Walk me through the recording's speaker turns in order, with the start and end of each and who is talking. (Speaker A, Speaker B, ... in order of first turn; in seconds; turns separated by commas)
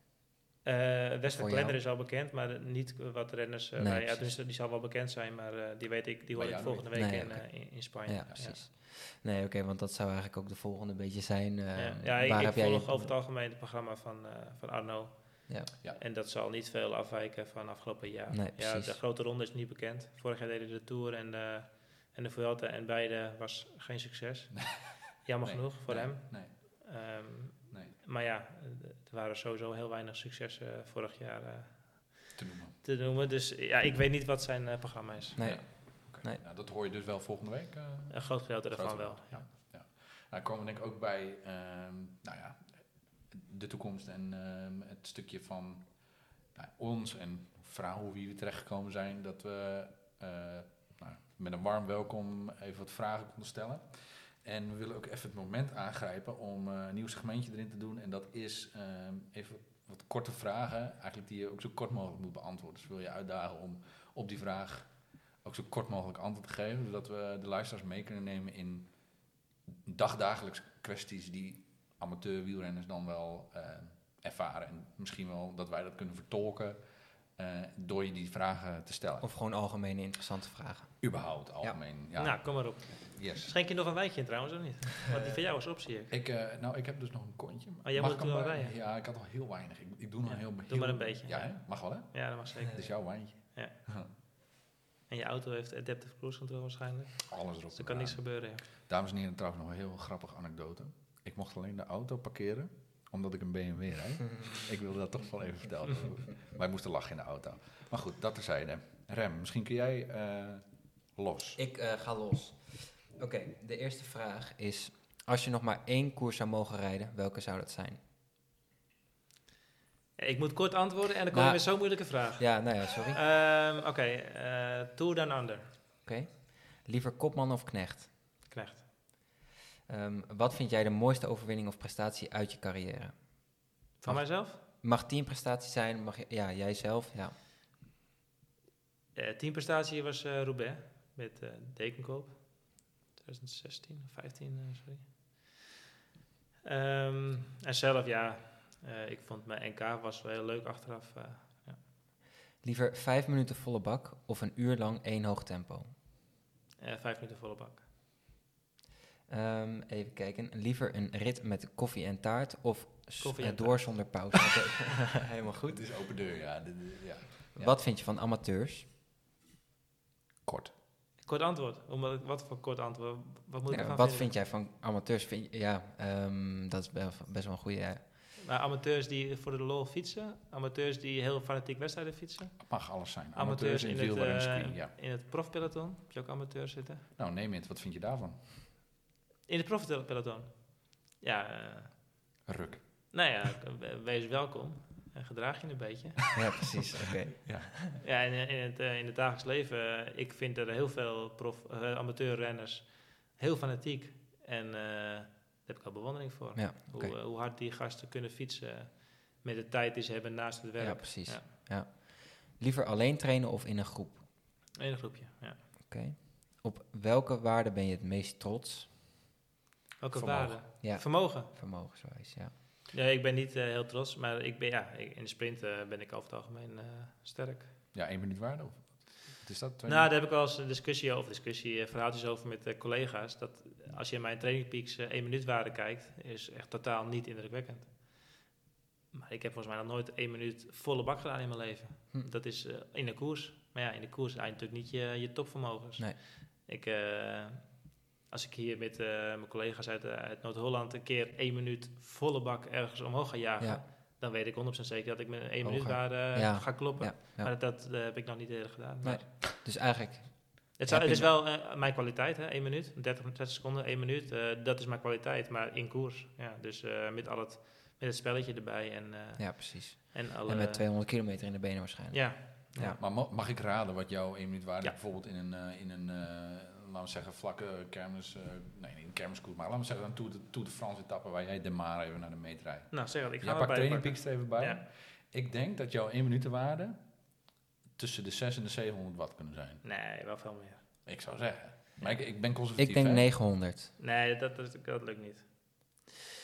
Speaker A: 0.6-8.6, Speaker B: 1.3-1.8, Speaker B: 3.7-4.4, Speaker C: 6.3-6.9, Speaker B: 6.9-13.2, Speaker A: 11.7-35.4, Speaker B: 18.3-19.0, Speaker C: 24.6-27.0, Speaker C: 27.7-28.0, Speaker C: 32.4-32.8, Speaker B: 35.3-36.4, Speaker C: 35.4-79.3, Speaker A: 38.1-39.4, Speaker B: 79.2-81.8, Speaker C: 81.0-83.5, Speaker A: 82.2-86.1, Speaker B: 85.1-85.4, Speaker C: 86.1-94.1, Speaker A: 87.8-88.7, Speaker A: 90.3-93.7, Speaker A: 95.1-98.6, Speaker C: 97.3-111.6, Speaker B: 111.6-118.0, Speaker A: 120.2-125.8, Speaker B: 121.3-123.2, Speaker B: 126.0-128.1, Speaker A: 128.5-128.8, Speaker B: 129.9-137.3, Speaker A: 134.0-134.6, Speaker A: 139.1-145.6, Speaker A: 146.6-151.8, Speaker B: 152.6-155.9, Speaker A: 156.8-157.8, Speaker B: 159.3-165.8, Speaker A: 163.2-164.3, Speaker C: 165.6-167.8, Speaker B: 167.6-168.8, Speaker C: 170.4-170.7, Speaker A: 171.2-174.3, Speaker B: 173.7-178.0, Speaker A: 178.4-187.1, Speaker C: 182.6-184.9, Speaker C: 187.2-188.5, Speaker A: 189.5-192.1, Speaker C: 192.5-193.1, Speaker A: 193.1-196.4, Speaker B: 196.3-197.8, Speaker C: 197.4-197.7, Speaker A: 198.0-211.5, Speaker B: 206.5-207.2, Speaker B: 210.8-214.2, Speaker A: 214.8-215.6, Speaker B: 215.9-218.9, Speaker A: 220.0-221.5, Speaker C: 220.1-220.6, Speaker B: 220.8-222.5, Speaker A: 222.9-227.7, Speaker C: 227.9-230.1, Speaker A: 229.8-238.4, Speaker A: 239.1-259.3, Speaker B: 255.6-257.5, Speaker B: 259.0-261.3, Speaker A: 260.8-270.9, Speaker B: 269.4-273.0, Speaker A: 272.1-273.0, Speaker C: 273.0-287.4, Speaker A: 282.9-284.8, Speaker C: 287.9-289.8, Speaker A: 289.8-291.1, Speaker C: 291.1-293.3, Speaker B: 292.8-293.9, Speaker A: 294.0-296.1